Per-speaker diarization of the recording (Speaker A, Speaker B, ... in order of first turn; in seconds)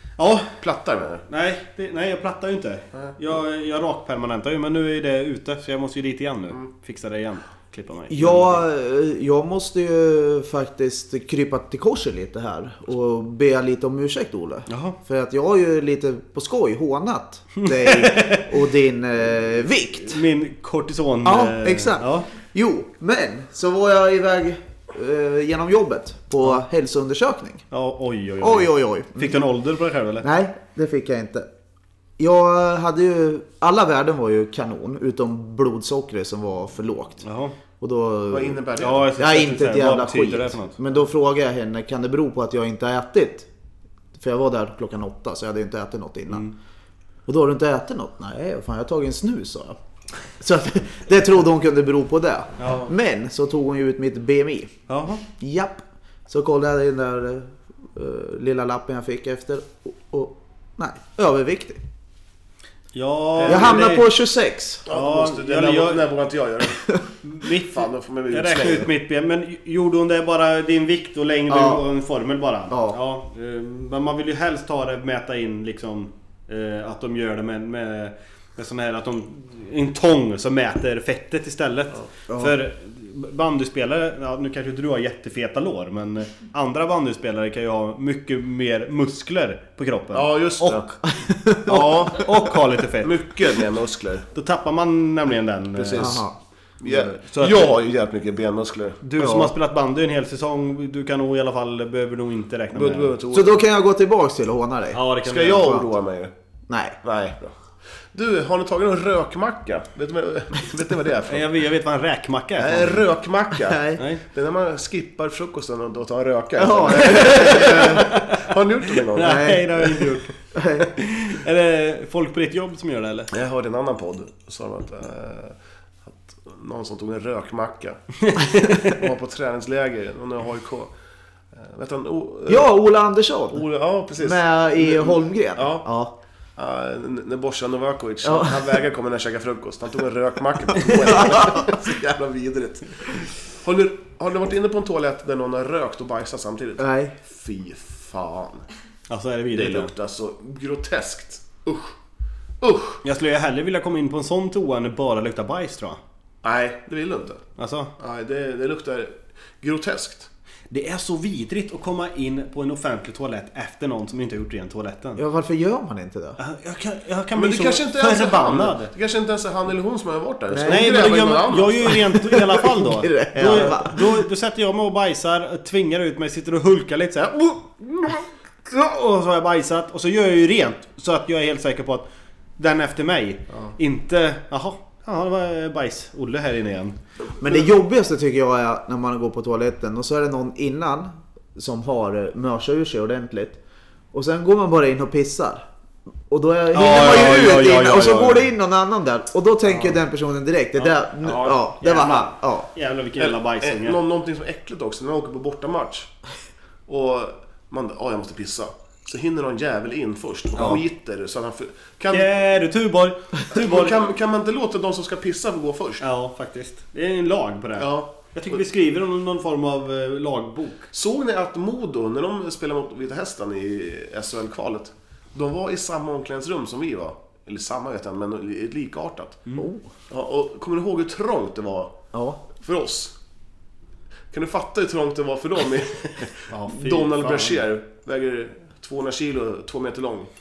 Speaker A: 0.2-0.5, 1.3-8.6, 14.7-15.0, 17.8-18.5, 20.0-22.3, 27.7-30.2, 37.2-37.5, 38.8-40.8, 52.6-52.9, 54.9-55.2, 62.9-64.1, 64.9-66.1, 67.2-90.3, 91.7-93.1, 94.3-96.2, 96.8-97.7, 99.0-103.1, 104.9-105.8, 111.3-113.0, 114.0-114.2, 116.9-118.3, 119.2-123.3, 128.2-129.0, 149.1-149.9, 153.0-156.0, 157.6-157.9, 160.7-165.2, 166.4-168.9, 170.7-182.1, 182.6-187.0, 196.7-198.5, 201.3-204.0, 212.1-213.9, 216.0-220.9, 236.5-237.6
Speaker B: 0.5-1.3, 38.3-39.1, 63.4-63.9, 64.9-66.8, 67.7-68.9, 90.1-90.9, 91.7-92.2, 93.0-94.3, 95.8-96.2, 96.8-99.0, 102.7-103.6, 105.2-106.3, 107.0-107.5, 108.1-111.5, 112.6-119.5, 123.3-128.1, 128.8-130.9, 131.5-132.7, 133.5-135.9, 136.6-148.7, 149.5-151.9, 152.6-153.0, 156.4-157.4, 158.0-160.3, 167.3-172.0, 199.7-200.0, 201.3-201.6, 203.2-206.1, 206.9-212.5, 213.5-216.1, 217.8-218.6, 220.9-229.4, 230.1-232.0, 232.6-233.1, 234.3-240.3
Speaker C: 8.1-20.2, 21.2-27.7, 28.4-29.4, 30.2-31.5, 32.2-37.2, 37.8-43.5, 44.2-46.5, 47.3-49.8, 50.4-54.8, 55.4-61.8, 63.5-64.8, 71.5-71.9, 72.7-73.0, 82.3-82.5, 91.0-92.0, 96.0-96.3, 99.2-99.5, 103.3-105.9, 106.7-107.0, 113.7-114.0, 116.6-118.0, 119.2-120.9, 132.5-136.2, 138.2-138.7, 141.0-141.7, 146.8-147.2, 165.2-166.4, 170.5-170.9, 172.2-174.2, 187.4-193.6, 194.1-195.7, 196.3-202.7, 229.6-229.9, 232.1-232.4